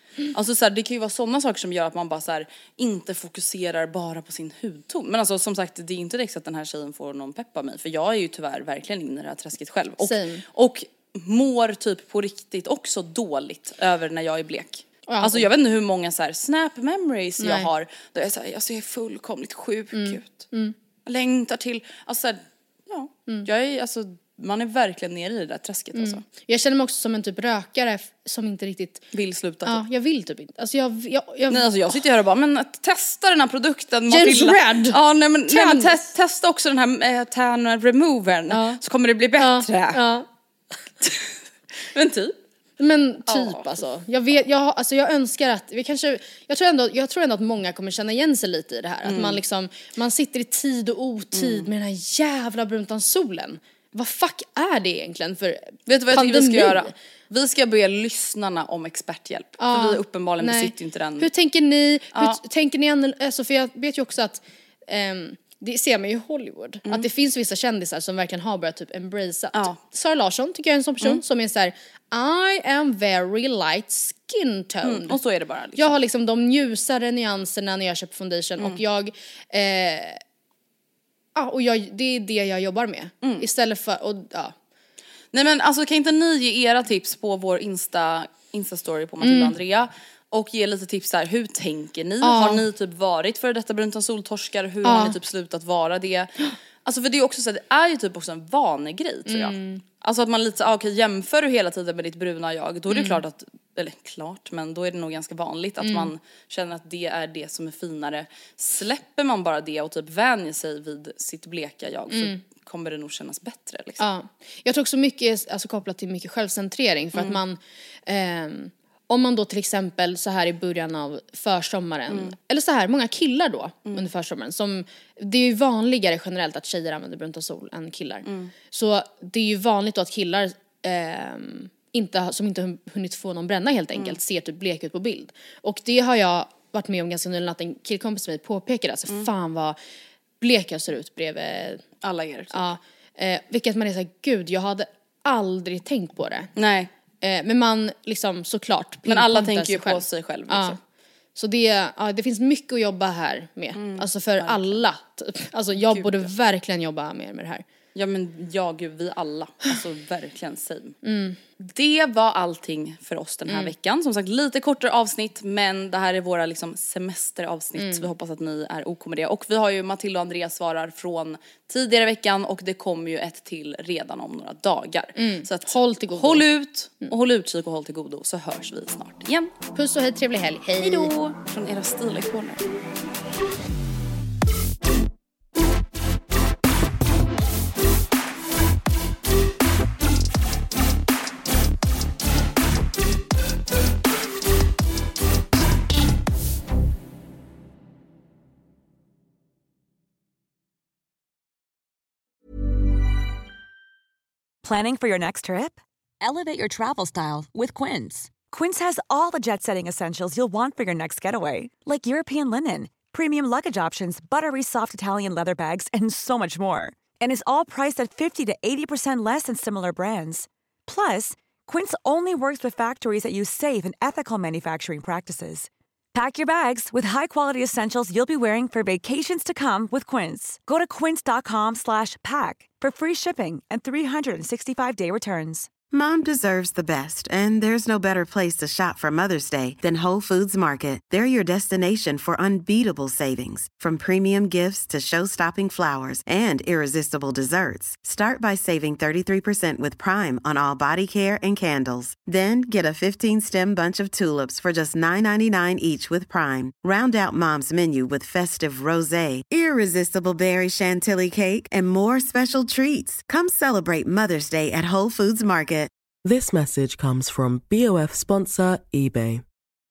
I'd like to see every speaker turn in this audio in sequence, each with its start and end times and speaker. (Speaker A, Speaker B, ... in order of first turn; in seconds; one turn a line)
Speaker A: 0.3-20.5
Speaker B: 10.0-10.4
Speaker B: 15.1-15.5
Speaker B: 17.4-17.7
Speaker B: 19.9-20.8
Speaker A: 21.1-26.2
Speaker B: 25.9-29.1
Speaker A: 29.1-29.8
Speaker B: 29.6-32.0
Speaker A: 31.5-40.0
Speaker B: 34.1-36.0
Speaker B: 38.5-38.8
Speaker B: 39.4-40.3
Speaker A: 41.9-42.4
Speaker B: 42.8-56.9
Speaker A: 43.3-43.7
Speaker A: 49.1-49.4
Speaker A: 51.3-51.7
Speaker A: 55.9-61.3
Speaker B: 59.6-75.2
Speaker A: 69.5-69.8
Speaker A: 74.8-76.0
Speaker B: 75.8-80.2
Speaker B: 81.4-84.5
Speaker A: 85.3-114.0
Speaker B: 89.2-89.6
Speaker B: 92.2-92.7
Speaker B: 94.8-95.2
Speaker B: 99.3-99.8
Speaker B: 102.9-103.2
Speaker B: 105.8-106.1
Speaker B: 112.1-112.4
Speaker B: 114.0-139.8
Speaker A: 122.1-122.4
Speaker A: 128.3-128.5
Speaker B: 140.4-141.8
Speaker A: 142.0-142.7
Speaker B: 142.5-146.5
Speaker A: 146.6-146.9
Speaker B: 147.2-150.8
Speaker A: 149.1-150.8
Speaker B: 151.3-157.6
Speaker A: 153.8-154.8
Speaker A: 155.7-156.3
Speaker A: 157.9-161.0
Speaker B: 161.0-161.4
Speaker A: 161.6-179.5
Speaker B: 167.8-168.1
Speaker B: 175.2-176.5
Speaker B: 179.7-181.1
Speaker A: 180.8-182.6
Speaker C: 204.6-235.7
Speaker D: 235.9-265.9
Speaker E: 266.2-269.4